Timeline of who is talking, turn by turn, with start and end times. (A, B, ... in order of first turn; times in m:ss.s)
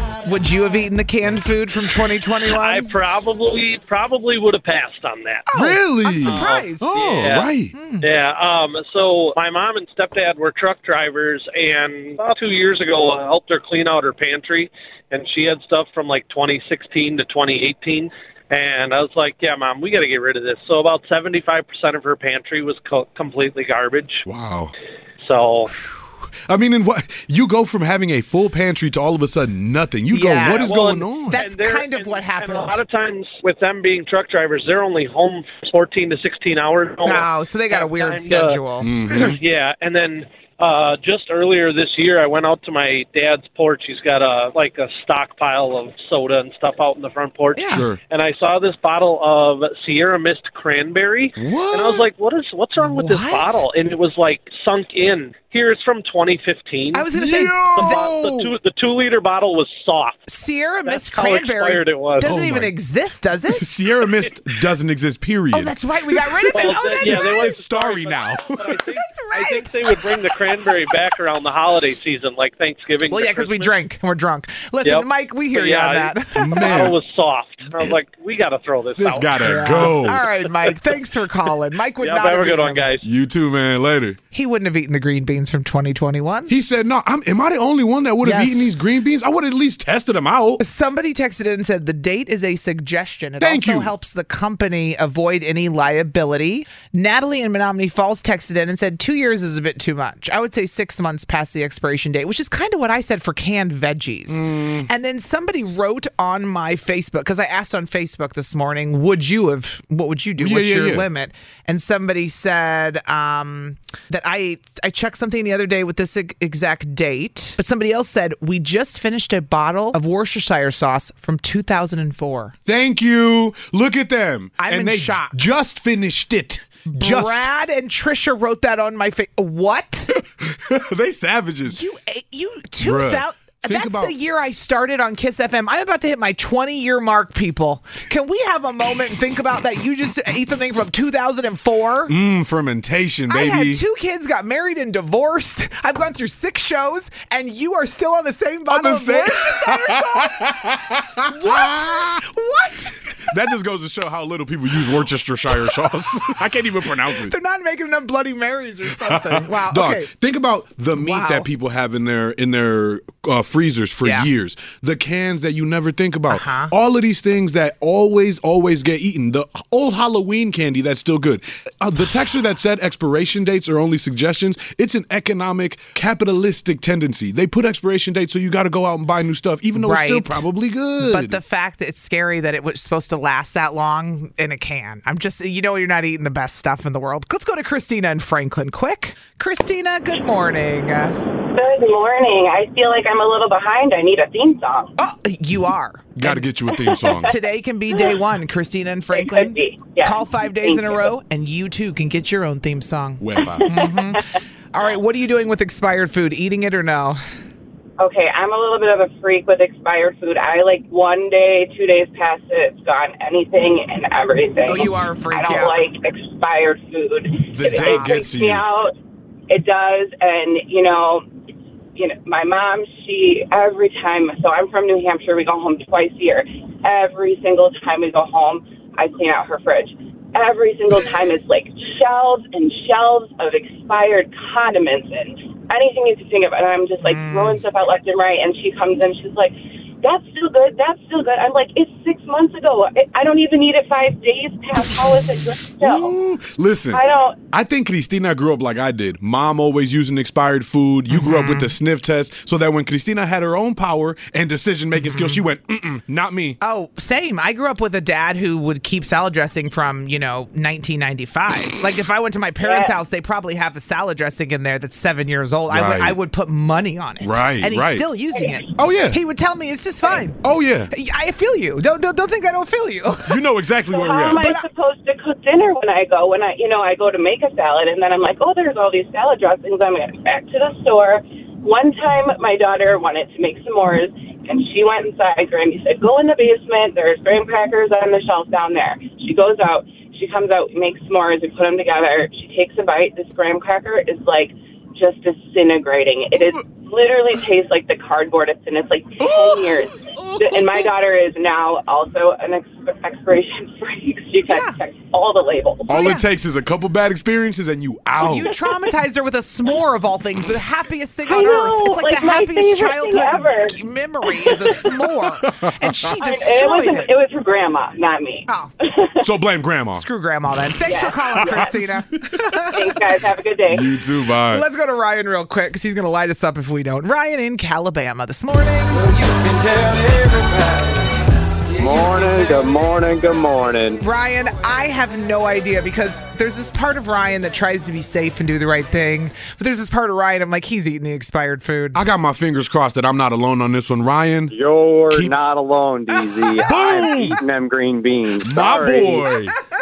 0:00.2-0:02.9 A
0:02.5-0:05.5 B
0:05.5-0:07.1 A
0:05.5-0:07.7 C
0:06.2-0:24.2 B
0:07.7-0:08.1 A
0:24.3-0:24.7 C
0:25.2-0:25.7 B
0:26.5-0:31.4 C
0:30.1-0:30.8 A
0:30.6-0:57.1 B
0:31.3-0:32.8 A
0:37.0-0:38.9 A
0:38.8-0:39.4 C
0:47.6-0:47.9 A
0:47.7-0:48.0 C
0:51.4-0:52.1 C
0:52.8-0:53.7 A
0:56.9-0:58.2 A
0:57.1-0:58.5 C
0:57.8-1:00.2 B
1:00.3-1:03.7 A
1:00.8-1:02.3 B
1:02.2-1:02.7 C
1:03.5-1:08.8 C
1:05.5-1:07.5 A
1:06.5-1:13.7 B
1:09.0-1:10.2 A
1:13.1-1:16.6 A
1:14.8-1:20.0 B
1:16.4-1:17.0 C
1:19.0-1:20.2 C
1:19.4-1:22.9 A
1:22.0-1:23.0 B
1:23.0-1:24.2 C
1:24.3-1:26.5 A
1:26.5-1:30.6 C
1:28.2-1:28.7 A
1:30.6-2:02.6 A
1:33.4-1:33.9 C
1:44.3-1:44.9 C
1:50.4-1:51.1 C
2:02.7-2:07.5 C
2:04.6-2:05.4 A
2:06.9-2:10.1 A
2:10.2-2:11.8 C
2:11.7-2:22.2 A
2:12.8-2:14.2 C
2:22.1-2:23.8 C
2:23.3-2:30.5 A
2:28.7-2:32.2 C
2:31.3-2:33.3 A
2:33.3-2:37.3 C
2:37.1-2:40.1 A
2:39.0-3:01.4 C
2:41.0-2:41.5 A
2:44.0-2:44.3 A
2:46.3-2:46.7 A
2:59.8-3:00.4 A
3:01.0-3:11.2 A
3:11.5-3:14.9 D
3:15.0-3:16.5 A
3:16.2-3:17.3 C
3:17.2-3:27.2 A
3:19.1-3:21.1 D
3:23.2-3:23.8 C
3:23.4-3:24.4 D
3:28.0-3:38.9 D
3:34.6-3:35.8 A
3:37.5-3:38.7 C
3:37.6-3:38.2 A
3:39.5-3:41.3 D
3:42.0-4:06.1 D
3:57.0-3:57.6 A
4:05.8-4:16.6 C
4:06.9-4:07.4 D
4:11.1-4:11.7 A
4:15.0-4:15.4 A
4:16.6-4:30.4 A
4:22.6-4:23.0 D
4:25.7-4:26.2 C
4:27.2-4:28.1 C
4:28.4-4:28.6 D
4:28.8-4:29.2 C
4:30.4-4:30.9 C
4:30.9-4:33.4 A
4:33.3-4:34.5 C
4:33.9-5:06.0 D
4:34.4-4:34.7 A
4:56.4-4:56.6 C
4:59.2-5:00.9 C
5:04.5-5:04.8 A
5:05.9-5:08.6 C
5:05.9-5:06.3 A
5:08.2-5:17.1 A
5:11.3-5:13.8 D
5:14.3-5:14.8 D
5:15.4-5:16.0 C
5:16.2-5:19.2 D
5:19.2-5:20.0 C
5:20.0-5:22.8 A
5:20.8-5:21.7 D
5:21.4-5:22.1 C
5:22.6-5:23.9 D
5:23.7-5:24.6 C
5:24.5-5:29.1 A
5:29.2-5:30.8 E
5:31.8-5:34.0 E
5:34.0-5:42.0 A
5:42.0-5:44.5 C
5:44.5-5:49.3 E
5:46.6-5:47.4 C
5:48.4-5:49.6 C